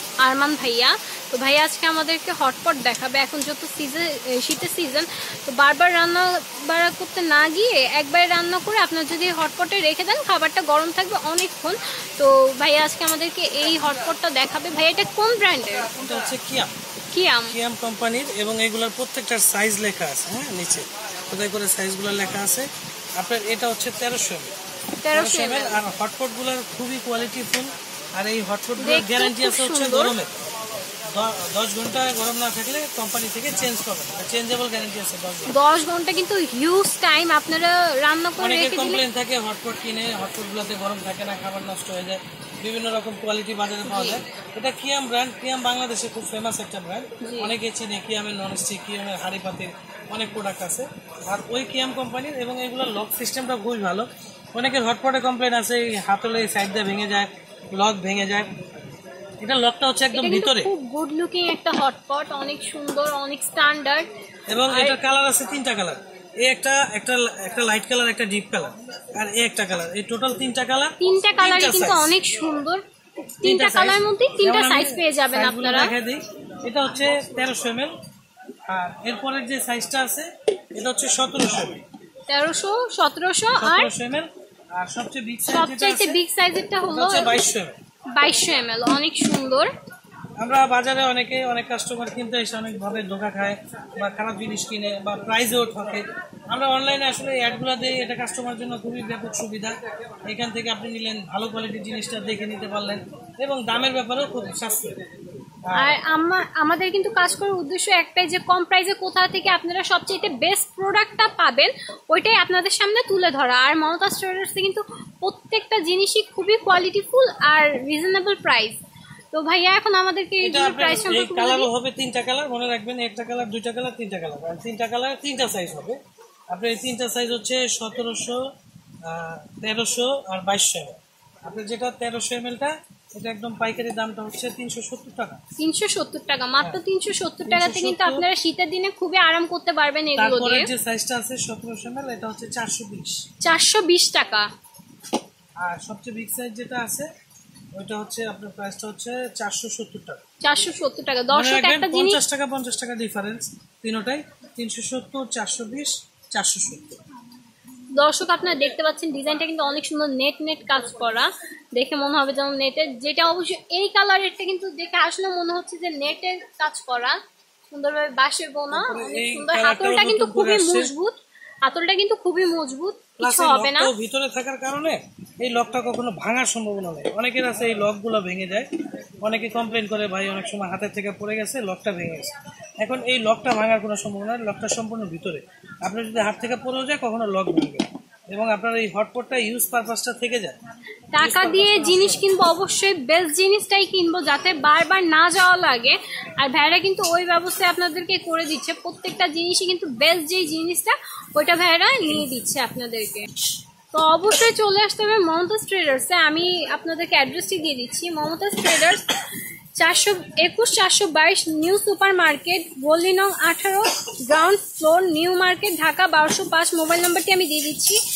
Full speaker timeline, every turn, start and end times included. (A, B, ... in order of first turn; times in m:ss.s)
0:00.2-0:15.9 A
0:16.0-0:16.7 B
0:17.1-0:17.5 A
0:17.5-0:24.5 B
0:25.0-0:25.8 A
0:25.1-0:30.3 B
0:28.8-0:30.1 A
0:31.0-0:35.6 B
0:35.5-0:39.0 A
0:38.4-0:58.5 B
0:43.8-0:44.2 A
0:47.2-0:47.5 A
0:59.4-1:00.7 B
1:00.1-1:04.1 A
1:04.5-1:12.2 B
1:04.7-1:05.0 A
1:11.0-1:12.8 A
1:13.4-1:15.9 A
1:13.4-1:17.9 B
1:18.7-1:21.8 B
1:22.3-1:23.9 A
1:23.6-1:26.2 B
1:25.5-1:27.4 A
1:26.9-1:27.8 B
1:28.1-1:29.7 A
1:30.4-1:39.8 B
1:40.3-1:45.0 B
1:45.7-1:46.0 B
1:45.8-1:58.8 A
1:59.3-2:01.7 A
2:00.4-2:06.0 B
2:06.5-2:08.4 B
2:09.0-2:15.4 B
2:15.6-2:20.7 A
2:17.4-2:18.2 B
2:20.2-2:23.2 B
2:23.4-2:24.5 A
2:25.6-2:27.1 B
2:27.7-2:30.2 B
2:30.4-2:32.2 A
2:31.3-2:36.9 B
2:38.0-2:47.2 A
2:47.7-2:53.9 A
2:48.7-2:50.9 B
2:53.2-2:58.7 B
2:59.2-3:10.6 B
3:11.1-3:23.3 A
3:11.2-3:12.3 B
3:23.9-3:29.1 A
3:29.8-3:38.0 A